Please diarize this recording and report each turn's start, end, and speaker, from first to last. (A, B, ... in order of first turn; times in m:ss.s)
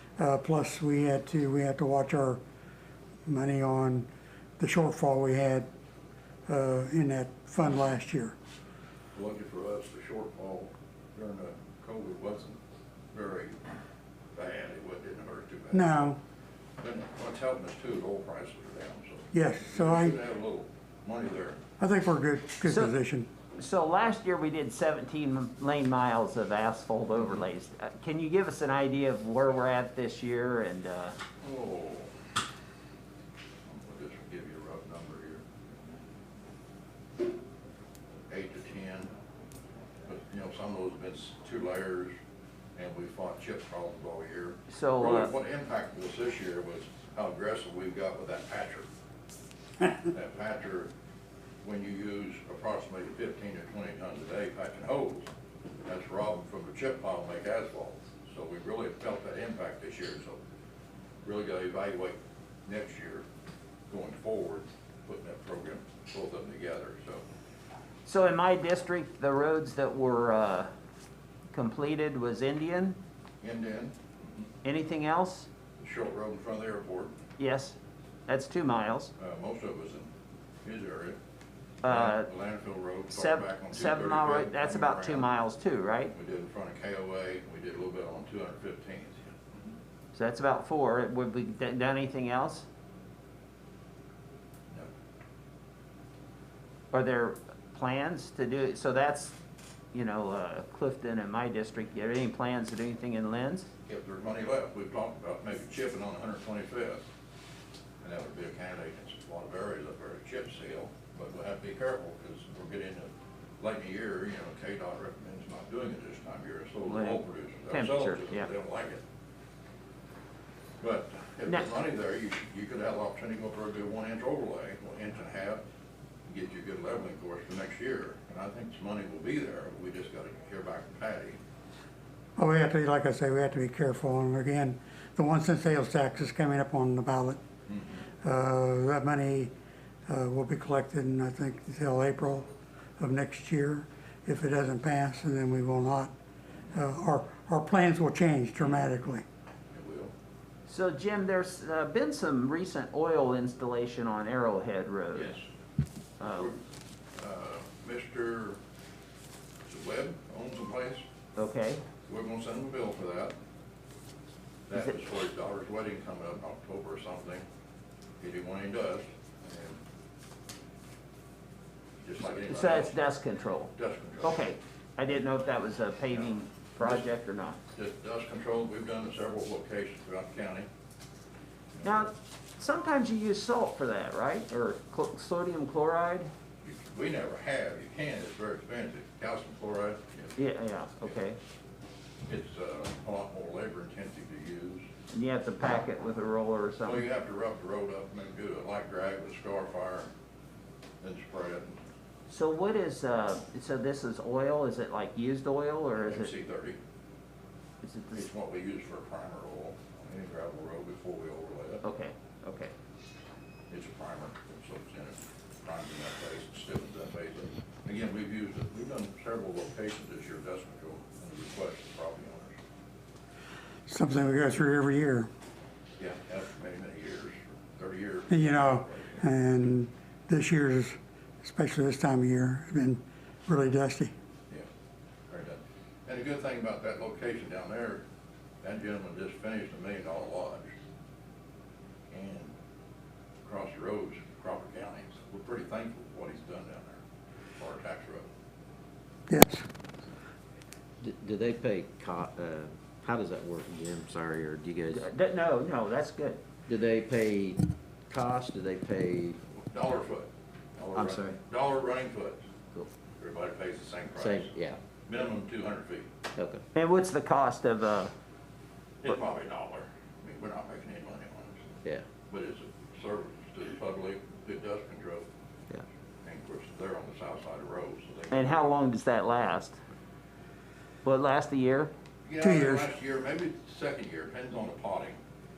0:00.2-0:02.4 A
0:03.2-0:04.1 A
0:04.6-0:05.7 A
0:06.4-0:08.3 A
0:09.1-0:12.6 B
0:13.1-0:13.6 B
0:14.3-0:16.2 B
0:15.7-0:16.2 A
0:16.8-0:21.6 B
0:19.3-0:20.2 A
0:21.8-0:23.3 A
0:22.6-0:22.9 C
0:23.5-0:31.2 C
0:31.4-0:32.2 B
0:33.6-0:35.4 B
0:38.3-0:39.1 B
0:40.0-0:42.1 B
0:42.7-0:48.9 B
0:44.7-0:45.3 C
0:50.0-0:50.9 B
0:51.6-0:55.3 B
0:55.8-1:00.4 B
1:01.2-1:03.2 B
1:03.9-1:07.2 B
1:08.0-1:10.7 C
1:11.5-1:13.0 C
1:13.4-1:14.4 B
1:14.6-1:15.5 C
1:15.8-1:17.1 B
1:17.4-1:17.8 C
1:18.3-1:19.1 C
1:19.2-1:20.1 B
1:20.6-1:21.2 B
1:21.8-1:22.3 C
1:21.8-1:25.3 B
1:23.1-1:26.1 C
1:26.1-1:29.7 B
1:30.1-1:32.6 C
1:36.9-1:39.3 C
1:39.9-1:43.7 C
1:43.8-1:47.0 B
1:48.0-1:59.0 B
1:56.9-1:58.5 C
2:00.8-2:05.6 B
2:06.3-2:11.4 B
2:12.4-2:17.4 A
2:17.7-2:18.0 B
2:18.2-2:19.5 A
2:20.1-2:26.1 A
2:26.7-2:29.2 A
2:29.7-2:30.1 B
2:30.7-2:35.4 C
2:35.1-2:35.4 B
2:36.2-2:36.5 C
2:36.2-2:36.6 B
2:37.2-2:38.6 B
2:39.7-2:41.0 B
2:41.4-2:41.8 C
2:42.0-2:43.3 B
2:44.7-2:47.4 B
2:48.2-2:49.8 B
2:52.0-2:53.0 B
2:52.3-2:57.6 C
2:53.7-2:54.4 B
2:56.8-2:57.0 B
2:57.7-3:00.7 B
3:01.7-3:02.1 B
3:01.8-3:06.3 C
3:06.6-3:10.4 B
3:10.4-3:11.4 C
3:12.3-3:14.8 B
3:15.1-3:17.0 C
3:16.8-3:20.1 B
3:21.0-3:21.8 B
3:22.3-3:26.3 C
3:26.0-3:26.8 B
3:27.8-3:28.2 C
3:28.1-3:31.8 B
3:31.8-3:32.7 C
3:33.7-3:42.6 B
3:43.9-3:45.3 A
3:46.0-3:49.2 B
3:48.3-3:54.1 A
3:55.3-3:58.0 B
3:58.6-4:00.7 B
4:02.1-4:02.5 B
4:03.4-4:07.0 B
4:07.6-4:08.3 B
4:09.3-4:09.6 A
4:11.0-4:15.1 D
4:14.9-4:16.4 C
4:16.7-4:19.4 D
4:19.7-4:22.4 B
4:20.9-4:21.4 D
4:23.2-4:26.1 B
4:24.2-4:24.8 D
4:26.3-4:26.6 D
4:26.7-4:28.1 C
4:29.0-4:31.7 B
4:32.3-4:35.2 B
4:36.2-4:38.7 B
4:38.3-4:39.8 C
4:41.0-4:41.9 C
4:42.2-4:45.2 B
4:42.4-4:42.9 A